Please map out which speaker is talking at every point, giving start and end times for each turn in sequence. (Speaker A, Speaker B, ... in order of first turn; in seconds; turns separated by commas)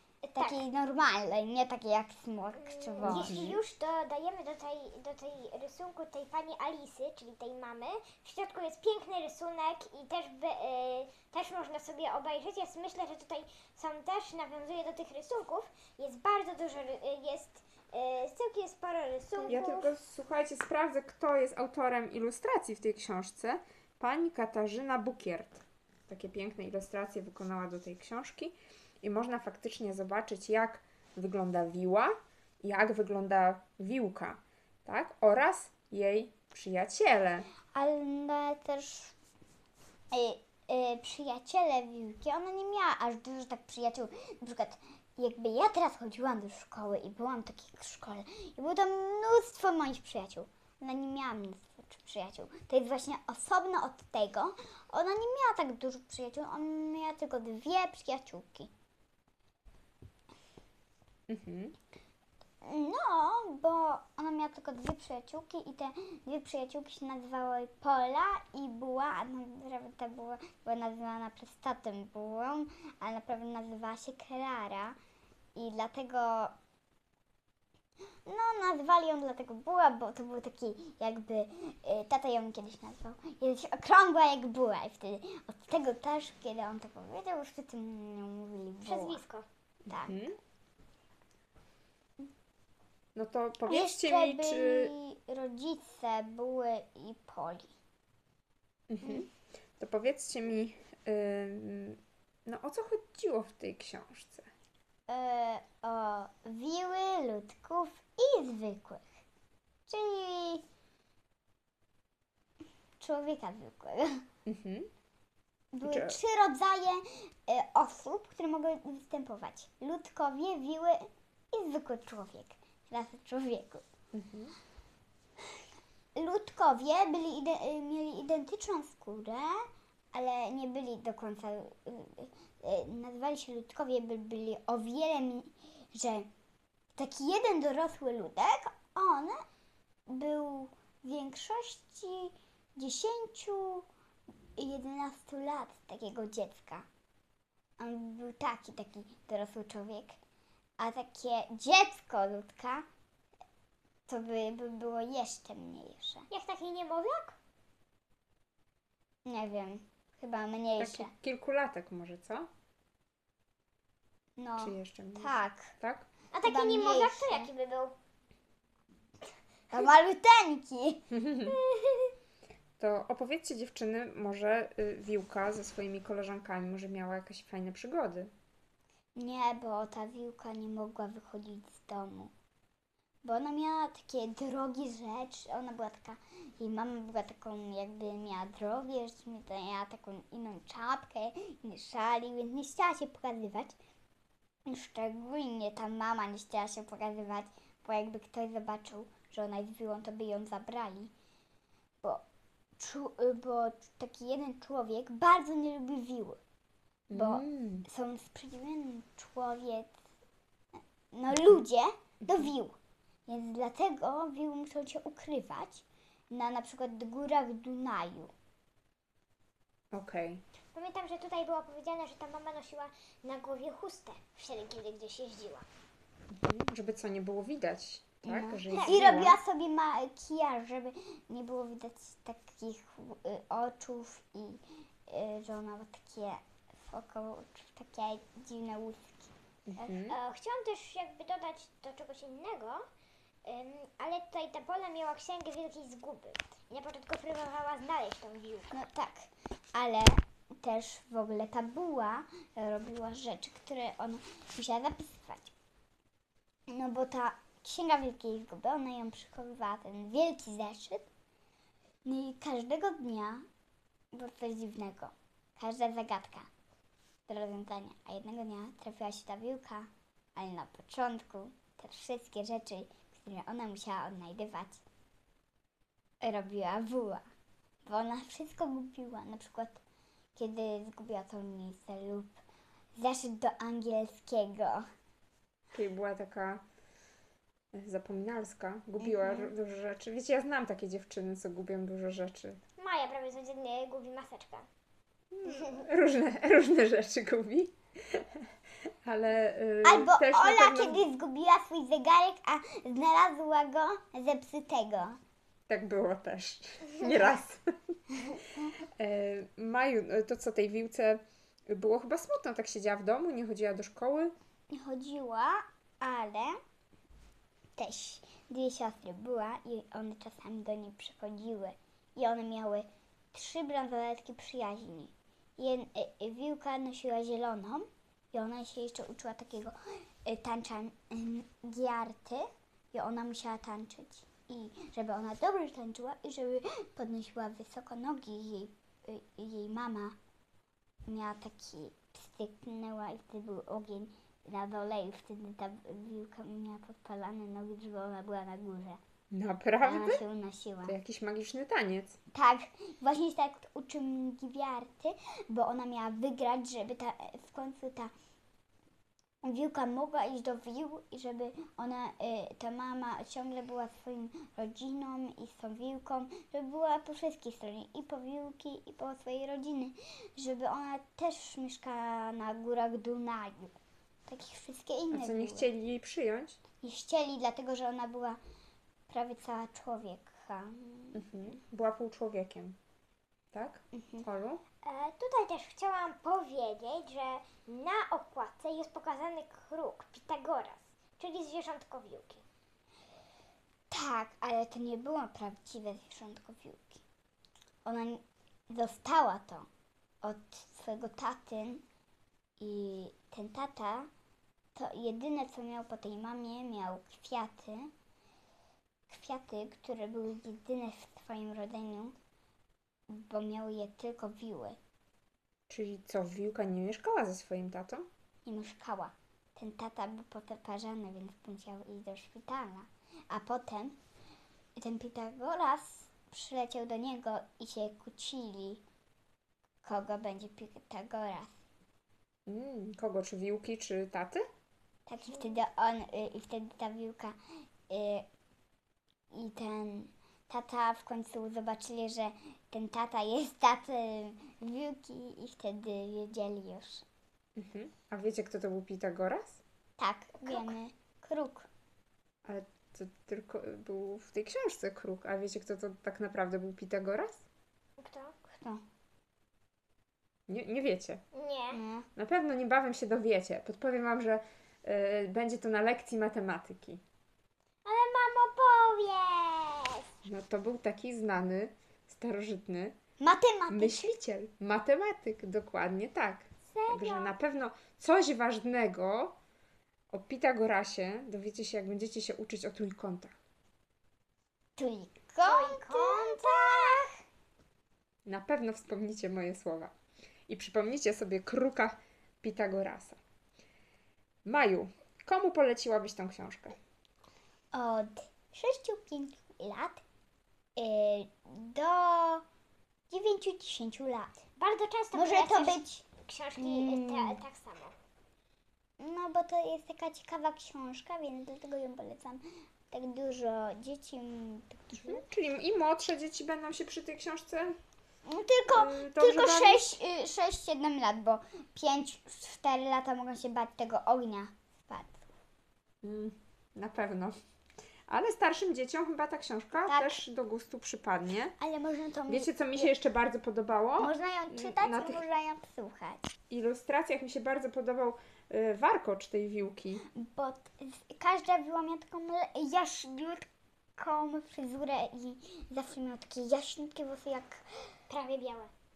Speaker A: 0.2-0.6, Speaker B: 0.3-3.5, Speaker A: 2.6-19.9, Speaker C: 3.0-3.6, Speaker C: 19.4-37.5, Speaker B: 37.7-39.1, Speaker B: 40.1-58.7, Speaker C: 61.3-61.8, Speaker B: 62.6-75.0, Speaker B: 75.5-76.5, Speaker B: 78.2-89.2, Speaker A: 88.8-89.5, Speaker C: 89.9-90.4, Speaker B: 89.9-90.2, Speaker C: 93.1-94.9, Speaker B: 93.7-97.7, Speaker C: 98.9-104.5, Speaker B: 105.1-109.1, Speaker B: 109.9-110.6, Speaker B: 113.0-114.2, Speaker C: 114.5-114.9, Speaker B: 115.7-123.8, Speaker C: 115.8-116.2, Speaker C: 124.1-124.5, Speaker B: 126.1-136.3, Speaker B: 136.9-139.4, Speaker B: 140.1-143.8, Speaker B: 144.6-146.8, Speaker B: 147.8-150.2, Speaker B: 150.8-152.8, Speaker B: 154.1-156.3, Speaker A: 156.3-157.3, Speaker B: 159.2-161.1, Speaker C: 160.8-162.5, Speaker B: 164.4-165.7, Speaker C: 164.6-166.1, Speaker A: 166.3-167.9, Speaker B: 166.4-167.5, Speaker B: 169.7-171.0, Speaker C: 171.1-171.6, Speaker A: 171.5-172.1, Speaker C: 172.8-178.3, Speaker B: 179.1-182.3, Speaker B: 183.2-193.8, Speaker B: 194.7-201.1, Speaker B: 202.8-206.4, Speaker C: 207.1-207.8, Speaker B: 207.1-210.0, Speaker B: 211.1-212.8, Speaker B: 213.3-218.3, Speaker C: 219.9-220.4, Speaker A: 220.7-225.7, Speaker C: 226.3-229.4, Speaker B: 228.2-240.0, Speaker C: 239.7-240.2, Speaker A: 240.1-242.8, Speaker A: 243.4-248.7, Speaker B: 248.7-255.5, Speaker B: 256.7-261.1, Speaker B: 262.0-263.4, Speaker B: 264.1-266.5, Speaker B: 267.3-274.8, Speaker B: 276.2-277.2, Speaker B: 277.9-279.8, Speaker B: 280.4-282.4, Speaker B: 283.0-284.9, Speaker C: 285.7-286.6, Speaker C: 287.7-292.6, Speaker B: 289.0-289.5, Speaker A: 292.8-294.6, Speaker C: 295.3-298.5, Speaker A: 295.5-295.8, Speaker C: 299.0-301.0, Speaker B: 299.8-305.2, Speaker C: 305.7-307.6, Speaker C: 309.0-314.3, Speaker B: 314.7-316.6, Speaker B: 317.8-340.1, Speaker B: 341.1-349.0, Speaker C: 349.3-350.2, Speaker B: 349.8-350.9, Speaker C: 350.9-352.2, Speaker B: 352.3-358.1, Speaker B: 359.4-373.7, Speaker B: 374.3-375.7, Speaker C: 375.1-376.6, Speaker B: 376.8-378.4, Speaker B: 379.1-381.3, Speaker C: 381.1-382.8, Speaker C: 383.5-384.6, Speaker B: 383.9-384.2, Speaker A: 384.8-392.4, Speaker B: 393.9-397.0, Speaker B: 397.8-399.7, Speaker B: 400.2-401.8, Speaker B: 402.6-404.1, Speaker B: 404.7-407.9, Speaker B: 409.1-412.1, Speaker B: 413.1-414.8, Speaker C: 415.7-418.1, Speaker B: 418.4-424.0, Speaker B: 424.8-428.8, Speaker B: 429.8-431.6, Speaker C: 432.5-434.4, Speaker B: 435.1-437.4, Speaker B: 437.9-438.2, Speaker B: 439.3-447.0, Speaker C: 447.6-449.6, Speaker B: 450.0-451.7, Speaker A: 450.4-450.7, Speaker C: 452.4-457.4, Speaker A: 458.0-458.3, Speaker B: 458.5-458.8, Speaker C: 460.5-461.2, Speaker A: 461.3-461.8, Speaker B: 461.7-462.1, Speaker C: 462.1-467.0, Speaker A: 467.8-470.0, Speaker C: 470.2-472.9, Speaker B: 473.2-474.1, Speaker C: 473.7-479.4, Speaker A: 476.7-477.3, Speaker C: 480.1-483.3, Speaker B: 484.8-487.1, Speaker A: 485.4-487.1, Speaker C: 488.2-489.9, Speaker C: 490.5-493.2, Speaker C: 494.4-496.8, Speaker B: 497.7-500.0, Speaker B: 500.8-502.4, Speaker B: 503.1-504.4, Speaker A: 504.6-507.9, Speaker B: 505.1-506.1, Speaker B: 506.6-507.4, Speaker B: 509.0-515.2, Speaker C: 515.0-517.8, Speaker B: 518.2-525.2, Speaker C: 518.7-520.0, Speaker C: 526.0-527.4, Speaker C: 528.1-531.5, Speaker B: 529.9-530.2, Speaker B: 531.6-532.9, Speaker C: 532.3-535.2, Speaker B: 534.0-536.3, Speaker C: 536.5-540.0, Speaker B: 540.1-547.7, Speaker A: 548.1-548.7